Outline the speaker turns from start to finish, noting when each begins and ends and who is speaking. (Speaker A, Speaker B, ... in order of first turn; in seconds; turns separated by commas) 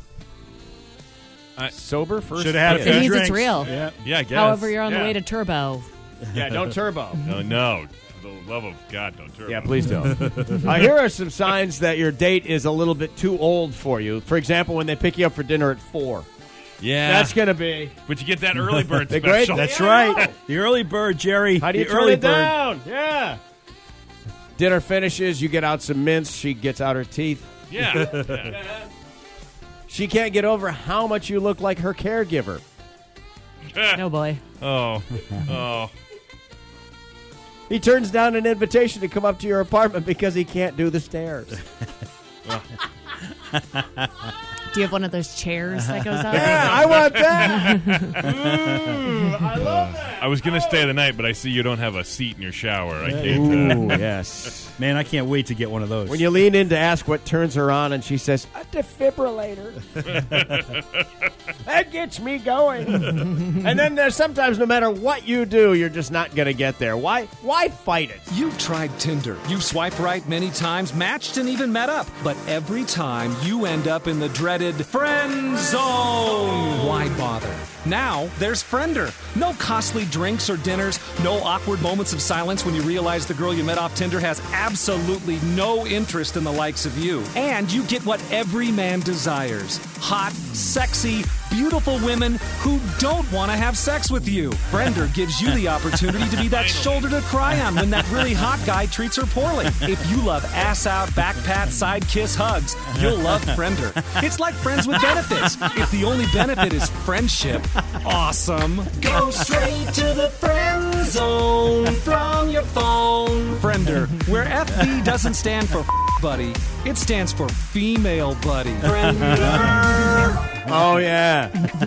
Speaker A: 1.7-3.1, Speaker B: 2.4-3.9, Speaker C: 2.6-3.7, Speaker D: 4.0-5.1, Speaker C: 4.2-5.9, Speaker A: 4.8-5.1, Speaker A: 6.3-7.2, Speaker D: 7.2-10.7, Speaker A: 9.5-16.3, Speaker B: 10.2-10.5, Speaker D: 16.8-17.4, Speaker A: 17.0-17.9, Speaker D: 18.1-20.3, Speaker A: 19.1-20.3, Speaker B: 19.5-22.5, Speaker A: 21.6-23.4, Speaker A: 24.6-28.9, Speaker D: 27.7-28.6, Speaker A: 29.9-32.6, Speaker D: 33.7-34.0, Speaker C: 33.9-34.4, Speaker D: 34.6-35.9, Speaker A: 37.7-41.6, Speaker D: 42.4-42.8, Speaker C: 44.7-48.1, Speaker A: 46.3-50.9, Speaker D: 46.3-48.9, Speaker B: 48.4-48.9, Speaker D: 49.5-54.0, Speaker B: 53.0-54.0, Speaker A: 53.2-54.7, Speaker B: 54.8-56.2, Speaker A: 56.1-60.0, Speaker D: 60.1-61.0, Speaker A: 61.6-68.3, Speaker E: 68.3-120.4, Speaker D: 96.4-97.1, Speaker B: 119.0-119.7, Speaker A: 120.6-121.6